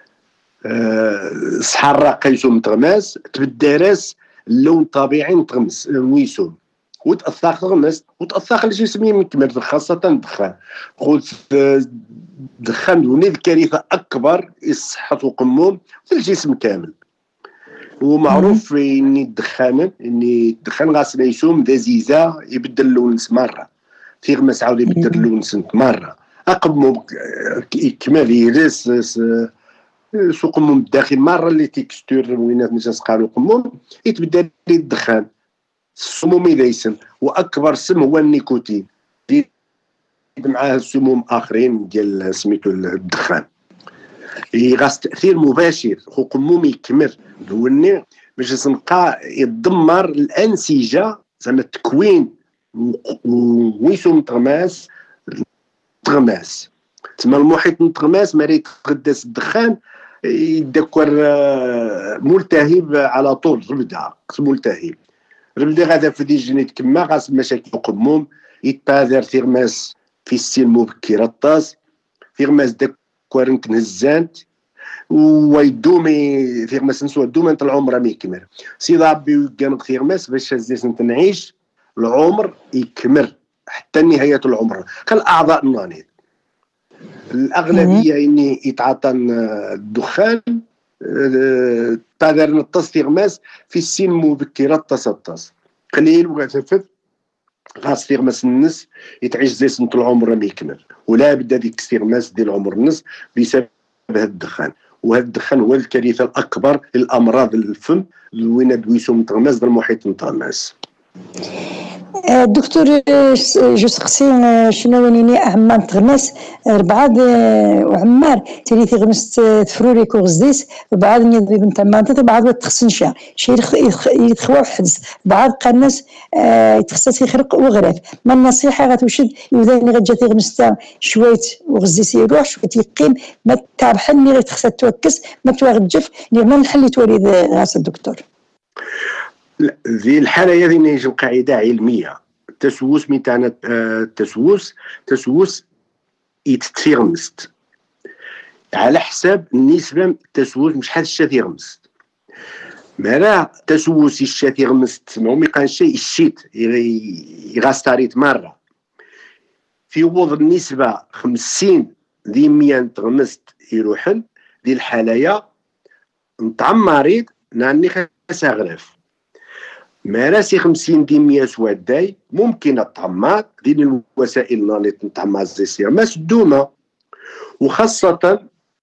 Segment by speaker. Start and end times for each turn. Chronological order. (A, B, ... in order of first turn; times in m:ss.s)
0:00.6-0:12.0 A
0:12.6-0:16.9 A
0:18.0-0:23.7 A
0:18.3-0:18.6 B
0:24.2-0:29.5 A
0:24.9-0:25.2 B
0:30.1-0:35.2 A
0:36.0-0:39.5 A
0:40.4-0:43.4 A
0:44.5-0:55.4 A
0:56.0-1:05.0 A
1:05.6-1:11.7 A
1:12.4-1:14.4 A
1:15.1-1:26.1 A
1:27.3-1:36.9 A
1:27.7-1:28.0 B
1:37.8-1:50.7 A
1:52.3-2:18.2 B
2:19.6-2:25.6 A
2:26.5-2:27.5 A
2:28.7-2:31.8 A
2:33.0-2:38.6 A
2:39.9-2:45.4 A
2:46.4-2:48.9 A
2:50.1-2:56.7 A
2:57.6-2:58.4 A